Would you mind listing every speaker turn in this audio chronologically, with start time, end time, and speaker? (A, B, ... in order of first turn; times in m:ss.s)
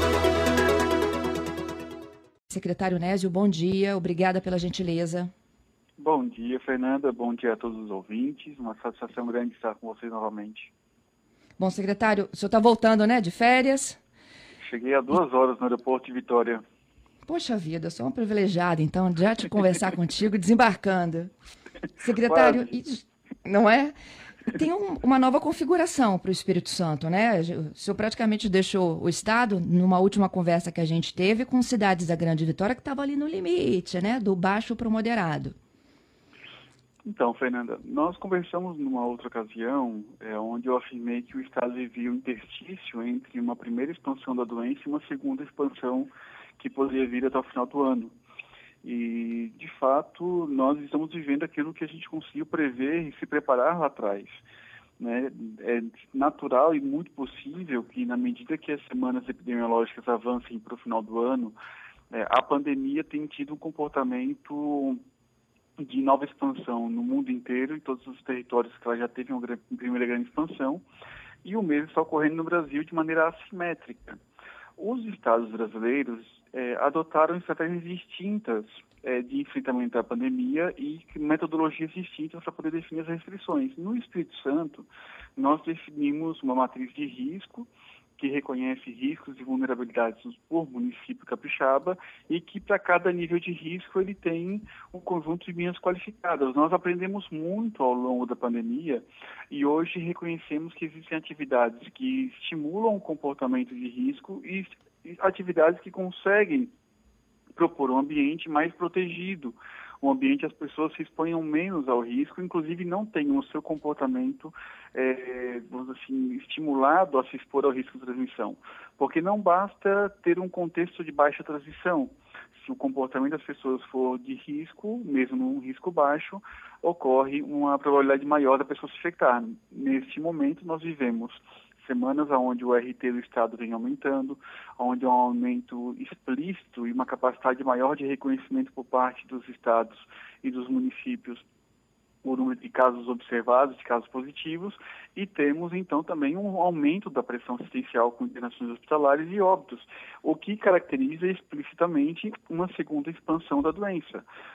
0:02.5-0:05.3 A
0:06.0-0:10.7 B
0:11.6-0:14.0 A
0:14.6-0:16.6 B
0:17.2-0:21.3 A
0:22.0-0:23.9 A
0:22.2-0:22.7 B
0:24.4-0:35.6 A
0:37.0-0:48.1 B
0:48.8-0:54.4 B
0:55.0-1:01.6 B
1:02.1-1:05.0 B
1:05.8-1:10.8 B
1:11.4-1:14.2 B
1:14.8-1:46.7 B
1:47.6-2:21.4 B
2:22.2-2:34.2 B